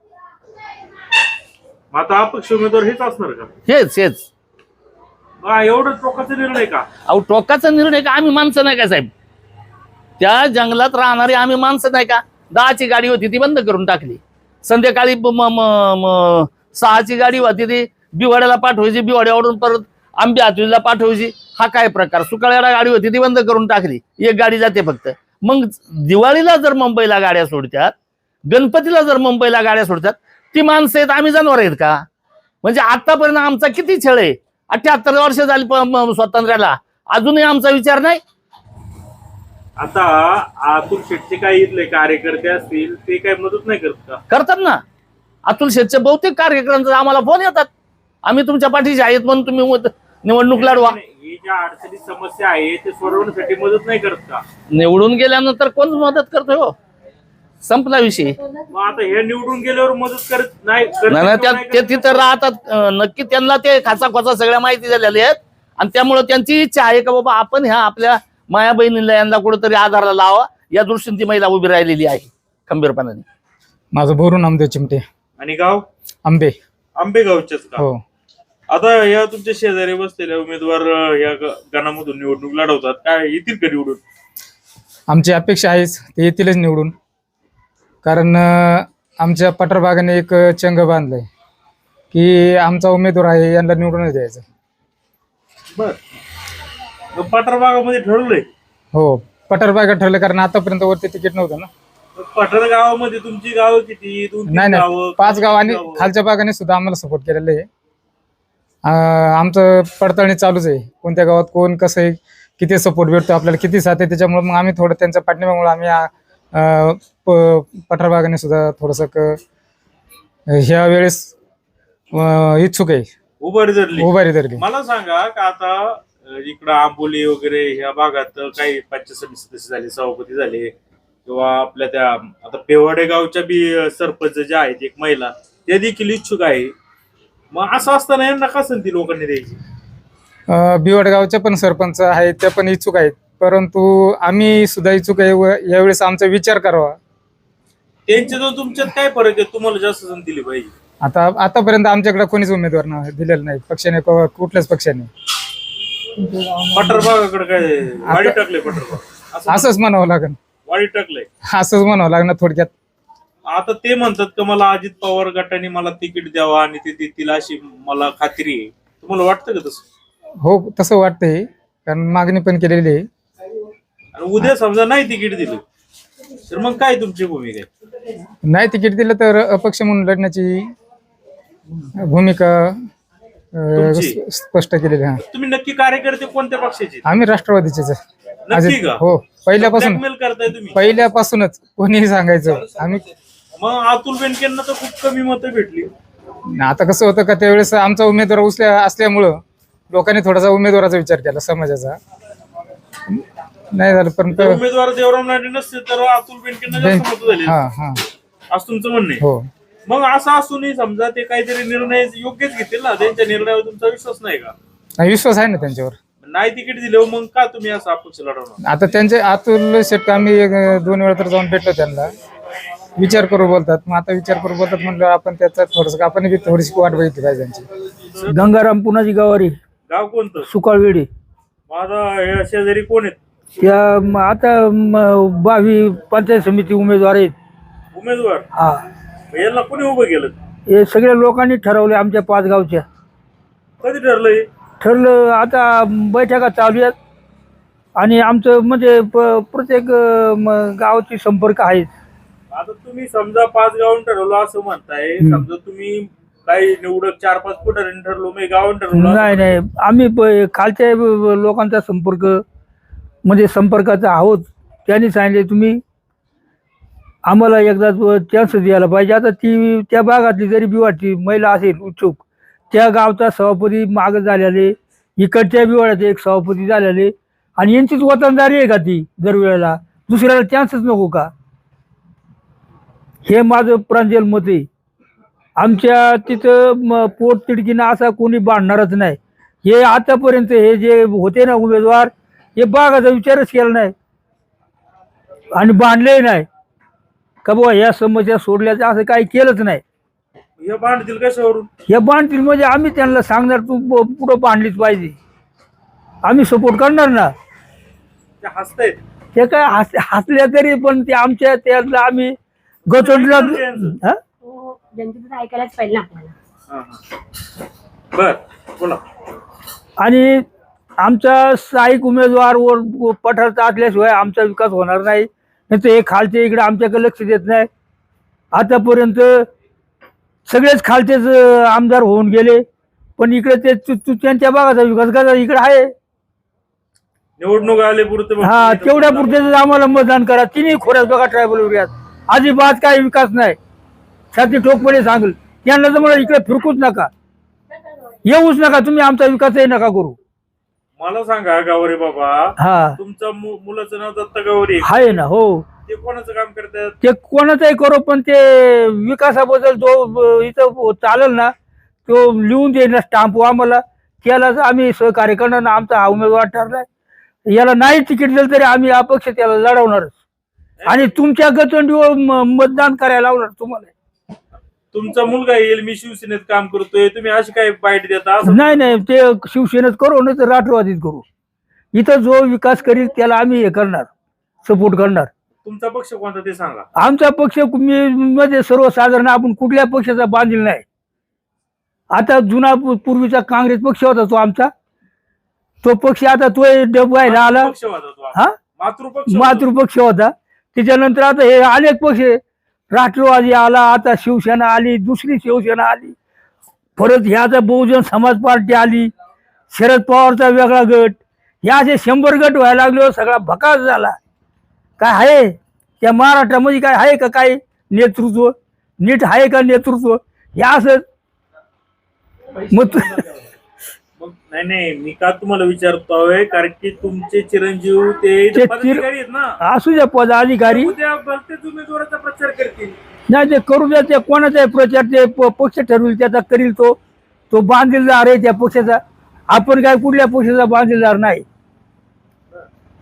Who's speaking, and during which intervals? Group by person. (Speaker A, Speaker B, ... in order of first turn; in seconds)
Speaker A: 1.9-3.5, 5.4-6.9, 39.8-44.2, 50.5-54.4, 58.7-62.2, 75.4-75.9, 77.0-77.9, 78.7-84.0, 97.2-98.5, 102.2-106.1, 123.4-130.7, 131.3-136.7, 137.5-139.6, 148.1-150.7, 156.7-159.7, 160.7-161.3, 163.5-169.8, 174.2-175.6, 176.5-177.7, 183.8-184.2, 185.3-187.1, 188.5-189.0, 189.6-190.8, 193.6-195.9, 204.3-207.6, 208.5-209.2, 209.9-214.5, 216.2-218.6, 229.9-230.5, 231.7-233.2, 237.9-238.5, 239.3-240.4, 243.8-244.5, 252.5-259.6, 300.6-301.7, 308.4-309.0, 312.9-314.0, 316.7-317.0, 318.1-319.0, 337.4-339.4, 351.0-355.2, 355.9-357.0, 370.8-371.2, 374.9-378.9, 385.6-386.9, 397.2-399.7, 424.2-429.6, 430.6-433.0
Speaker B: 3.7-4.3, 7.1-9.1, 10.2-27.9, 28.5-32.0, 32.6-38.2, 44.3-44.8, 45.5-47.7, 48.2-51.0, 54.7-56.8, 57.6-58.4, 61.1-73.2
Speaker C: 73.9-75.0, 76.2-76.5, 85.1-86.9, 88.0-91.3, 92.1-94.4, 98.9-101.7, 104.5-107.7, 108.9-119.4, 120.5-121.3, 122.1-123.1, 124.0-124.7, 140.5-147.0, 151.0-155.1, 158.1-158.9, 159.5-160.4, 161.5-162.7, 170.4-173.0, 178.5-180.7, 182.0-182.9, 183.5-185.2, 187.1-188.0, 188.5-190.0, 190.7-193.0, 196.6-202.0, 203.7-204.6, 206.7-208.0, 209.2-209.5, 215.0-216.0, 218.6-222.1, 223.0-227.7
Speaker D: 156.3-156.6, 228.3-229.6, 230.4-231.1, 233.6-237.3, 238.6-238.8, 240.7-242.8, 244.8-246.9, 248.0-251.9, 255.2-255.5, 258.9-262.4, 263.2-265.8, 267.3-281.3, 283.3-284.7, 285.6-293.9, 295.5-296.5, 297.4-299.8, 301.9-305.2, 306.2-307.3, 309.4-312.4, 312.9-314.2, 320.0-320.4, 321.0-327.7, 328.5-329.5, 330.5-332.6, 333.2-335.9, 338.4-343.6, 344.3-347.1, 348.2-350.2, 352.6-353.0, 354.8-355.6, 357.0-361.5, 362.1-366.9, 367.5-370.2, 370.9-373.9, 378.4-381.2, 381.9-384.1, 384.6-385.3, 387.0-390.8, 392.1-394.7, 395.8-397.7, 399.3-402.4, 402.9-406.1, 407.0-409.1, 409.7-414.2, 415.0-421.1, 422.7-423.3, 428.5-429.1, 429.6-430.9, 433.3-437.0, 437.5-441.4
Speaker E: 314.4-316.4